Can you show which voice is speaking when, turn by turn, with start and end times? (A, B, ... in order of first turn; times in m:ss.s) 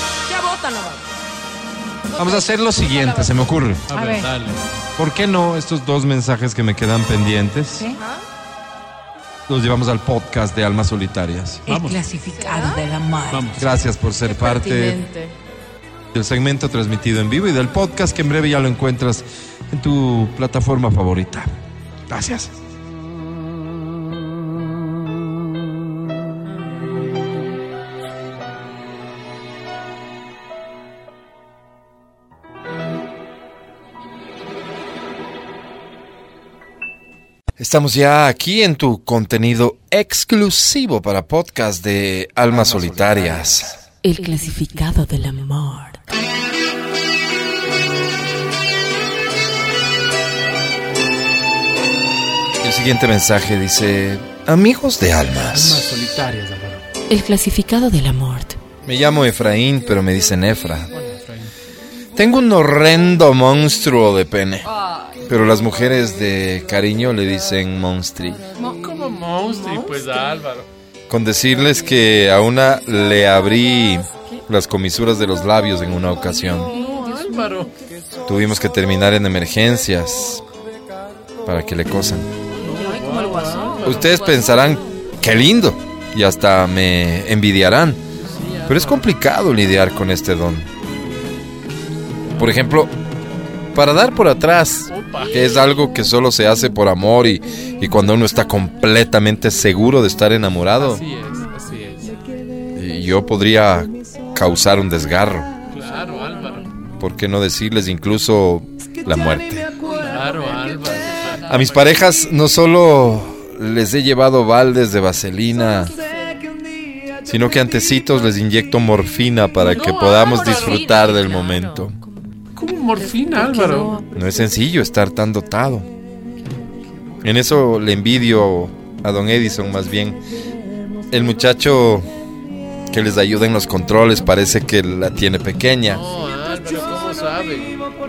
0:00.2-0:01.1 A
0:02.1-0:03.7 A
0:02.2-0:03.8 B
0:03.9-0:04.6 C
0:03.9-0:04.3 D
0:05.0-0:07.9 B
0:07.9-0:08.2 A
0:09.5-0:11.6 B
0:11.7-0:13.6 D
0:11.7-0:12.0 C
0:12.3-0:12.9 A
0:13.3-0:13.7 C
0:13.6-0:15.0 B
0:14.2-0:15.4 A
0:16.1-0:21.5 B
0:22.1-0:22.5 B
0:37.6-0:43.8 B
0:42.5-0:43.7 C
0:44.0-0:46.0 E
0:52.6-0:56.0 B
0:55.5-0:56.8 C
0:57.1-0:58.6 E
0:58.8-1:00.9 B
1:00.9-1:01.5 C
1:02.2-1:04.7 B
1:05.3-1:08.4 B
1:08.6-1:08.9 A
1:08.6-1:10.7 C
1:09.4-1:10.4 A
1:11.1-1:16.7 B
1:16.4-1:17.4 A
1:16.7-1:17.7 C
1:18.3-1:20.4 B
1:21.4-1:22.3 B
1:22.5-1:24.8 A
1:22.6-1:24.2 C
1:23.8-1:28.0 B
1:28.2-1:29.1 C
1:28.7-1:30.7 B
1:32.4-1:32.9 B
1:33.7-1:41.0 B
1:34.9-1:35.8 C
1:40.8-1:42.2 C
1:42.8-1:45.5 B
1:45.7-1:46.7 C
1:47.0-1:49.7 B
1:49.8-1:51.8 A
1:50.0-1:52.0 C
1:51.5-1:55.9 B
1:55.5-1:56.5 A
1:57.2-2:02.0 B
1:59.6-2:02.3 A
2:00.4-2:00.8 C
2:02.6-2:04.0 C
2:03.2-2:04.0 A
2:04.1-2:05.9 B
2:07.2-2:10.2 B
2:11.1-2:12.1 B
2:12.9-2:16.0 B
2:15.9-2:17.8 C